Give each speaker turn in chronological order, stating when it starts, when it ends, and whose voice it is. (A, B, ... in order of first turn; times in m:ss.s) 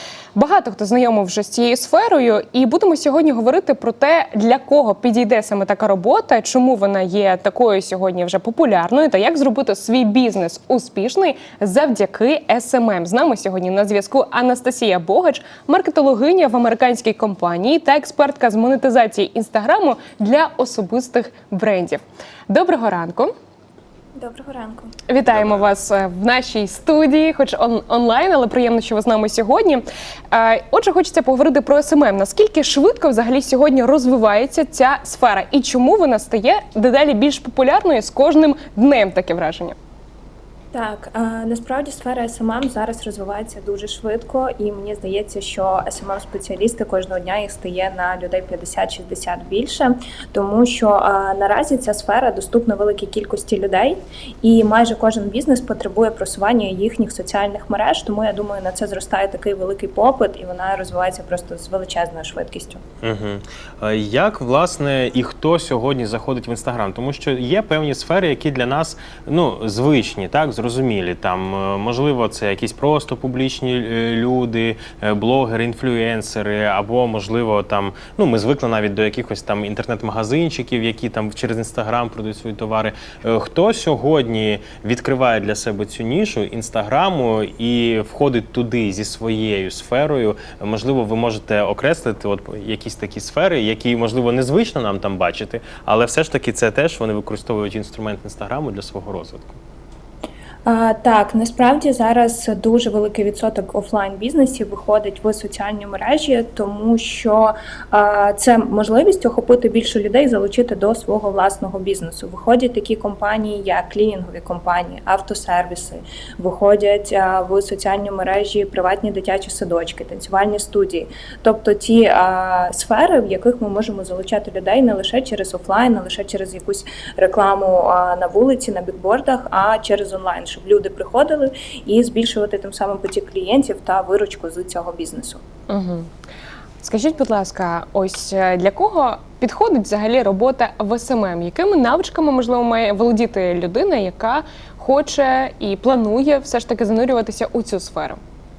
0:00.4-0:23.3 A
0:24.1-0:24.9 B
0:25.1-0:39.7 A
0:25.3-0:25.7 C
0:40.7-1:02.8 B
1:03.0-1:39.6 C
1:40.7-2:15.4 B
2:15.7-2:16.1 A
2:16.8-2:28.2 A